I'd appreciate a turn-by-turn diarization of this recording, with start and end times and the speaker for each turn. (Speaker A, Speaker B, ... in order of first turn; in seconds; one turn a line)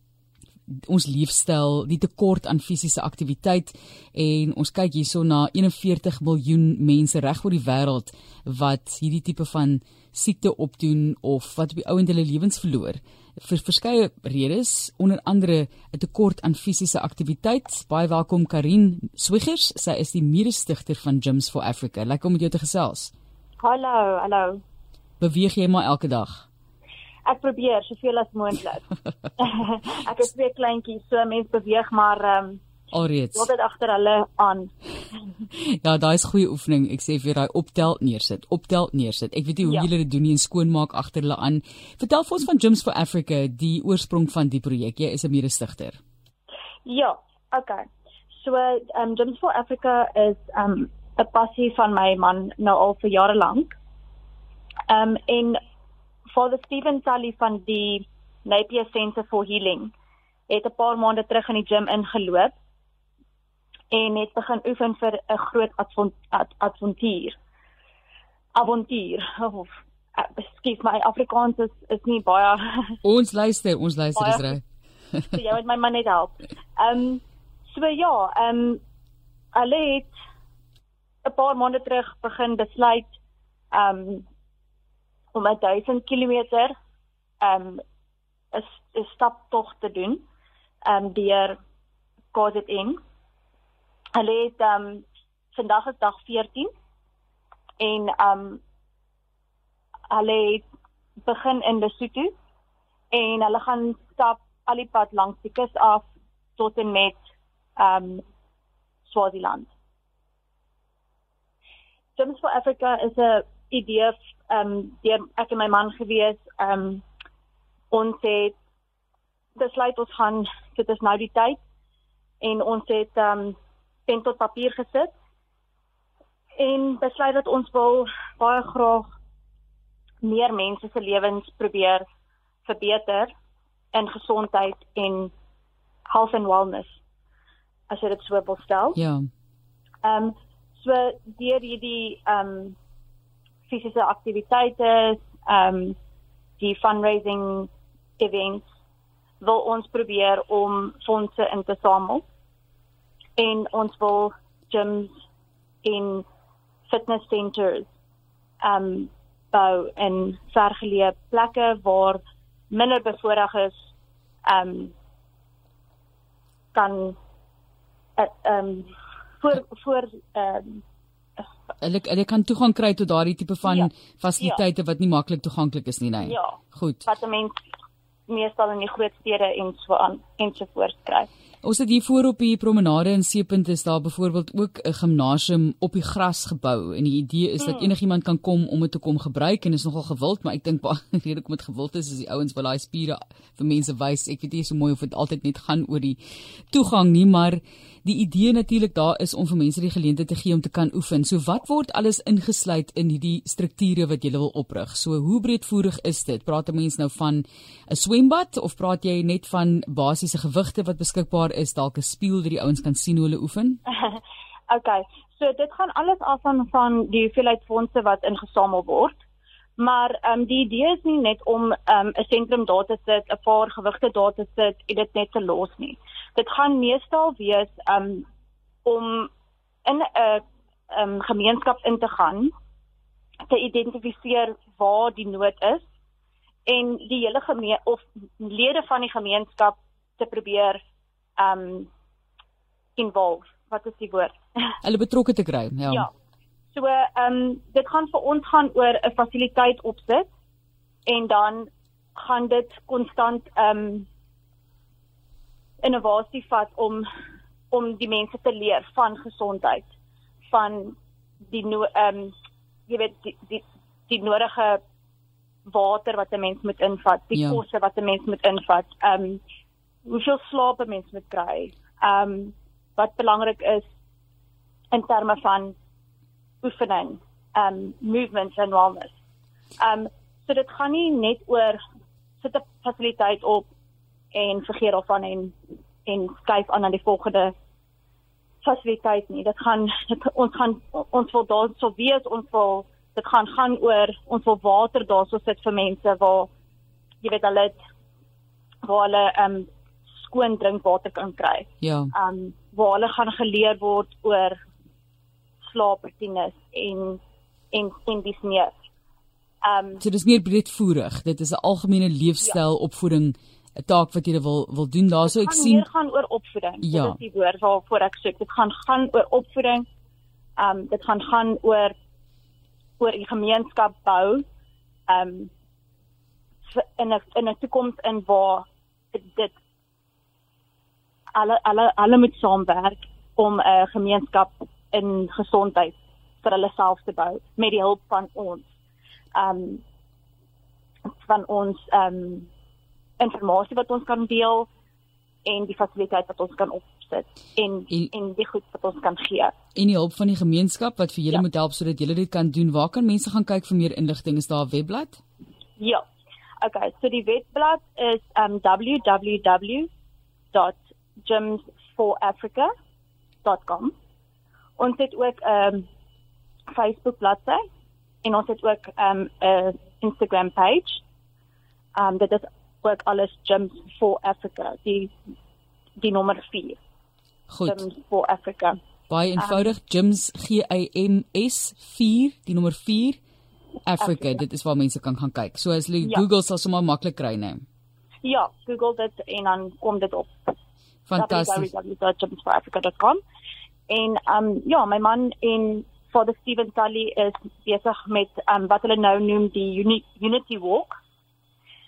Speaker A: 0.7-23.1
Speaker B: 23.6-24.6
Speaker A: 25.2-26.5
Speaker B: 27.2-28.9
Speaker B: 29.4-32.6
Speaker A: 32.9-33.5
Speaker B: 33.4-34.7
Speaker A: 35.7-46.0
Speaker B: 39.6-39.9
Speaker B: 46.8-53.8
Speaker B: 54.9-55.6
Speaker B: 56.3-59.9
Speaker B: 60.5-62.5
Speaker B: 63.9-67.4
Speaker B: 68.5-73.0
Speaker A: 73.0-75.3
Speaker B: 74.2-74.5
Speaker B: 75.3-78.8
Speaker B: 79.5-80.1
Speaker B: 81.2-83.1
Speaker B: 83.7-84.3
Speaker B: 85.3-86.7
Speaker B: 87.4-87.8
Speaker B: 88.5-90.2
Speaker B: 90.8-91.6
Speaker B: 92.3-93.0
Speaker B: 94.1-96.7
Speaker B: 97.8-98.6
Speaker B: 100.1-100.7
Speaker B: 101.2-102.3
Speaker B: 103.1-107.2
Speaker B: 107.8-108.2
Speaker B: 109.0-109.7
Speaker B: 112.2-117.0
Speaker B: 117.9-118.6
Speaker B: 119.5-121.6
Speaker B: 122.4-125.1
Speaker B: 126.6-129.1
Speaker B: 130.2-132.0
Speaker B: 132.6-133.3
Speaker B: 133.9-135.3
Speaker B: 136.1-137.0
Speaker B: 137.9-139.0
Speaker A: 138.9-139.3
Speaker B: 140.0-142.8
Speaker B: 143.7-146.0
Speaker B: 146.6-148.7
Speaker B: 149.4-152.2
Speaker B: 153.4-155.1
Speaker B: 155.8-156.2
Speaker B: 156.9-157.9
Speaker B: 158.6-163.8
Speaker B: 164.5-164.9
Speaker B: 166.7-167.2
Speaker B: 168.2-170.8
Speaker A: 171.8-177.1
Speaker B: 176.2-177.6
Speaker B: 178.3-181.3
Speaker A: 181.6-196.2
Speaker B: 187.6-187.9
Speaker A: 196.7-213.8
Speaker B: 213.9-219.2
Speaker B: 219.8-228.2
Speaker B: 228.8-229.3
Speaker B: 229.8-232.5
Speaker B: 233.5-235.9
Speaker B: 236.7-240.8
Speaker B: 241.4-241.9
Speaker B: 243.0-244.4
Speaker A: 244.8-246.1
Speaker B: 246.7-250.3
Speaker B: 251.1-254.1
Speaker B: 255.8-257.0
Speaker B: 257.7-259.9
Speaker B: 260.5-261.0
Speaker B: 261.5-262.3
Speaker B: 262.9-264.8
Speaker B: 265.6-269.4
Speaker A: 267.3-267.6
Speaker B: 270.1-273.9
Speaker B: 274.9-275.8
Speaker B: 276.6-279.1
Speaker B: 279.8-281.8
Speaker B: 282.4-283.7
Speaker B: 284.3-287.5
Speaker B: 288.6-296.5
Speaker B: 297.2-297.8
Speaker B: 298.8-304.6
Speaker A: 301.8-302.1
Speaker B: 305.6-307.2
Speaker B: 307.7-308.7
Speaker B: 309.6-310.0
Speaker A: 310.0-315.9
Speaker B: 315.2-319.9
Speaker A: 316.8-317.2
Speaker B: 320.6-321.9
Speaker B: 323.0-324.4
Speaker B: 325.1-325.5
Speaker B: 326.7-329.5
Speaker B: 331.3-338.7
Speaker B: 339.3-339.8
Speaker B: 341.2-342.5
Speaker B: 343.2-344.7
Speaker B: 345.4-349.5
Speaker A: 349.7-355.2
Speaker B: 355.8-356.0
Speaker B: 356.6-359.9
Speaker B: 360.5-362.7
Speaker B: 363.4-363.9
Speaker B: 364.8-365.9
Speaker B: 366.7-367.6
Speaker B: 368.2-371.0
Speaker B: 371.9-375.1
Speaker B: 376.0-376.8
Speaker A: 377.5-377.8
Speaker B: 377.6-378.8
Speaker A: 379.1-383.2
Speaker B: 379.4-379.7
Speaker A: 383.8-387.6
Speaker B: 388.2-390.3
Speaker A: 391.1-391.7
Speaker B: 391.1-393.2
Speaker B: 393.9-401.0